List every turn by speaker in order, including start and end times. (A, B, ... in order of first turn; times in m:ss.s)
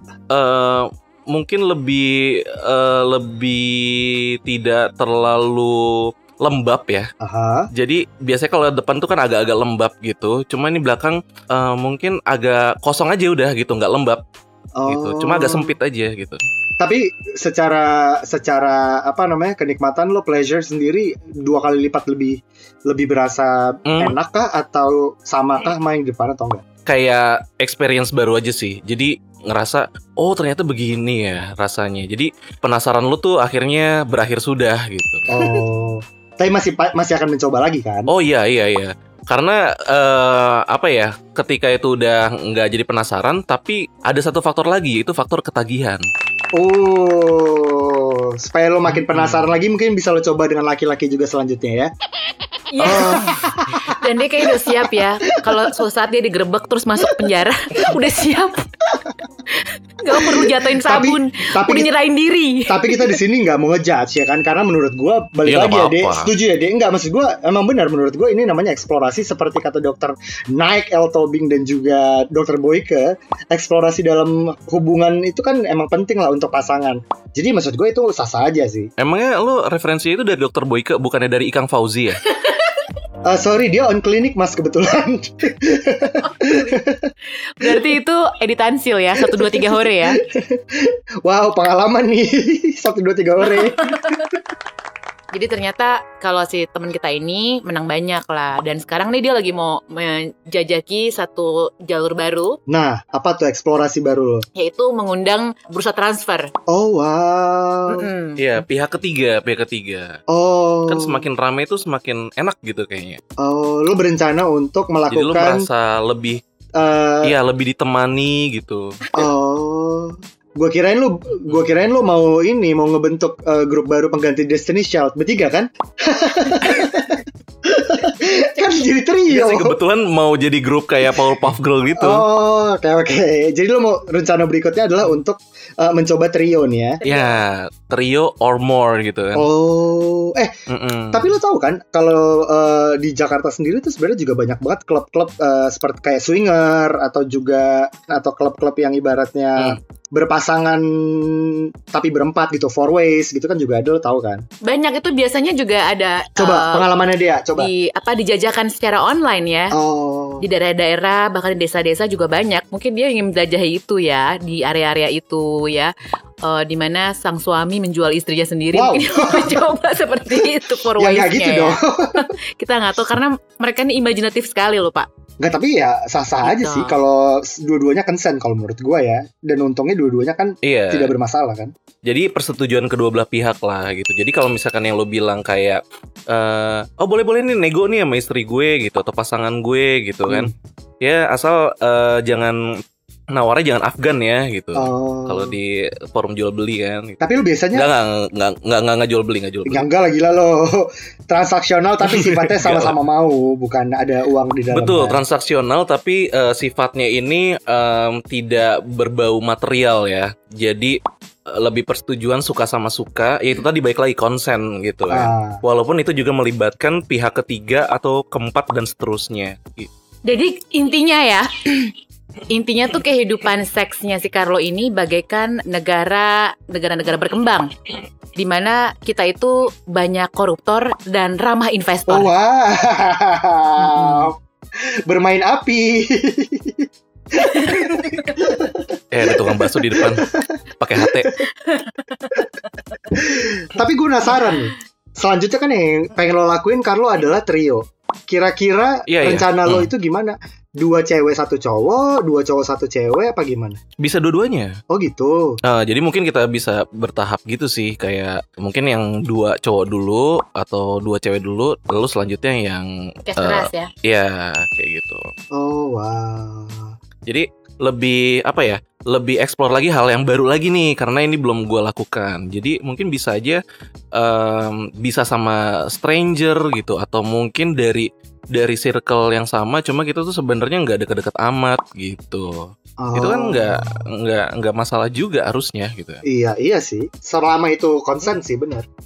0:00.3-0:07.1 A
0:07.2-0:07.7 B
0:07.7-0:14.2 A
0:14.8-0:15.7 B
0:14.9-0:16.4 A
0:16.8-0:26.6 B
0:23.9-0:24.1 A
0:26.8-0:35.3 A
0:35.3-0:38.1 B
0:38.1-0:46.0 A
0:46.5-0:51.9 B
0:48.9-0:49.5 A
0:52.7-0:58.8 C
0:52.8-0:55.6 B
0:59.5-1:03.1 C
1:00.1-1:01.9 B
1:02.7-1:18.9 B
1:05.4-1:06.3 A
1:19.0-1:22.2 A
1:22.3-1:22.8 C
1:23.2-1:27.1 B
1:26.2-1:26.8 C
1:27.6-1:30.2 C
1:29.3-1:34.3 B
1:33.6-1:34.3 C
1:35.3-1:42.6 C
1:42.7-1:44.4 B
1:44.6-1:46.5 C
1:46.7-1:48.1 B
1:47.9-1:48.6 C
1:48.4-1:50.1 A
1:50.3-1:51.2 B
1:50.9-1:53.2 A
1:53.4-1:55.7 B
1:55.1-1:56.4 A
1:56.8-1:57.3 B
1:57.2-1:59.0 A
1:59.2-2:09.8 B
2:09.3-2:12.3 A
2:12.0-2:17.0 B
2:17.0-2:17.4 C
2:17.0-2:19.5 A
2:19.3-2:20.5 B
2:20.7-2:21.4 A
2:21.1-2:34.4 B
2:34.6-2:36.8 C
2:36.4-2:37.7 B
2:37.6-2:39.7 C
2:39.7-2:40.4 B
2:40.4-2:45.9 C
2:46.4-2:55.1 C
2:48.7-2:49.6 B
2:50.4-2:52.3 B
2:55.4-3:01.7 B
2:56.4-2:56.9 C
3:00.6-3:01.1 A
3:02.0-3:05.8 A
3:06.3-3:10.5 A
3:10.3-3:10.5 B
3:11.0-3:12.6 A
3:13.3-3:17.2 A
3:14.7-3:15.6 B
3:17.2-3:17.9 B
3:17.7-3:19.8 A
3:19.6-3:25.2 B
3:22.0-3:23.0 A
3:24.7-3:31.0 A
3:31.5-3:39.9 A
3:35.1-3:35.6 B
3:40.2-3:41.9 C
3:42.5-3:47.7 C
3:48.4-3:52.3 C
3:52.1-3:54.4 B
3:53.8-3:54.3 C
3:55.0-4:01.4 B
3:57.5-3:58.3 C
3:59.1-4:01.3 A
4:01.6-4:02.4 C
4:03.1-4:13.8 B
4:09.1-4:09.9 A
4:14.0-4:14.7 A
4:14.9-4:15.6 B
4:15.6-4:22.8 A
4:23.3-4:23.9 C
4:23.4-4:25.2 A
4:25.5-4:26.9 B
4:27.2-4:33.6 A
4:34.2-4:46.2 A
4:43.0-4:43.9 B
4:46.2-4:48.8 B